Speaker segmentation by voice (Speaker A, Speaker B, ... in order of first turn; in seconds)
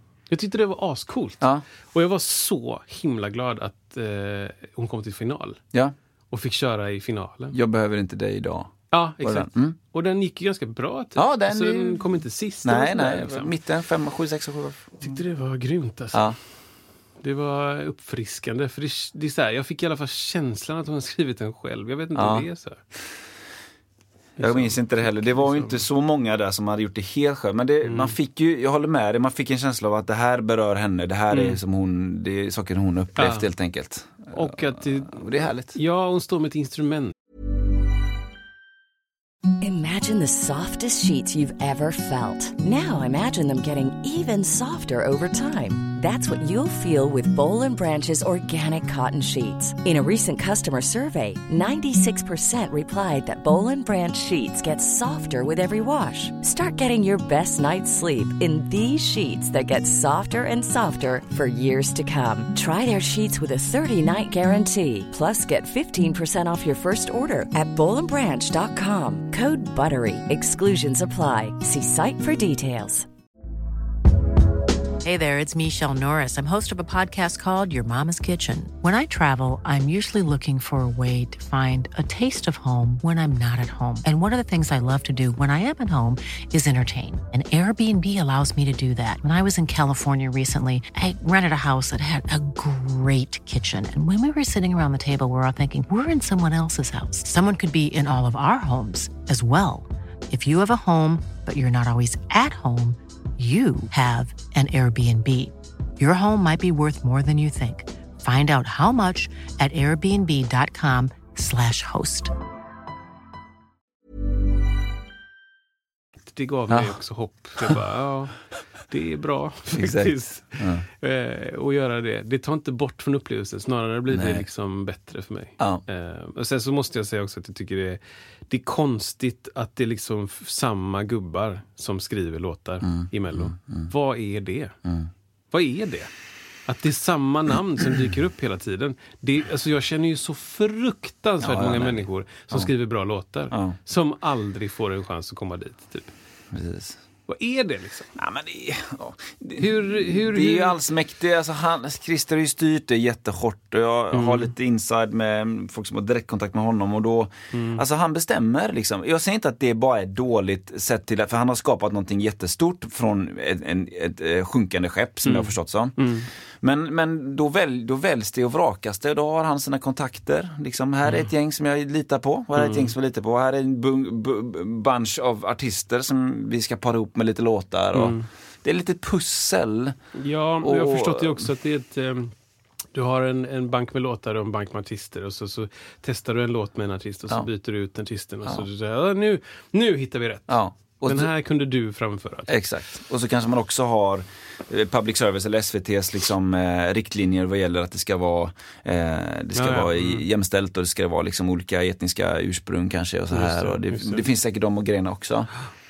Speaker A: 0.3-5.6, 6.3-7.5, 8.9-13.5, 15.0-16.2, 17.2-22.8, 24.4-25.8, 27.8-28.1, 31.3-31.6, 33.1-33.5, 34.3-37.1, 116.3-118.3, 118.9-134.8, 135.5-136.1, 136.7-146.1, 147.3-148.1, 149.6-150.8, 154.1-154.5, 157.5-157.8, 165.2-166.3, 172.5-172.9, 177.9-178.3, 180.1-182.3, 182.9-192.5, 199.5-200.2, 203.3-204.2
Speaker B: 7.5-9.8, 11.2-12.1, 12.6-15.2, 22.1-22.5, 24.4-35.8, 116.7-116.9, 119.7-120.8, 124.1-124.4, 132.8-133.9, 134.8-135.1, 141.4-142.7, 143.5-143.8, 146.5-147.0, 148.1-166.1, 166.6-179.9, 180.6-181.5, 190.5-191.3, 192.5-205.5
Speaker C: 39.6-73.1
Speaker D: 75.0-112.3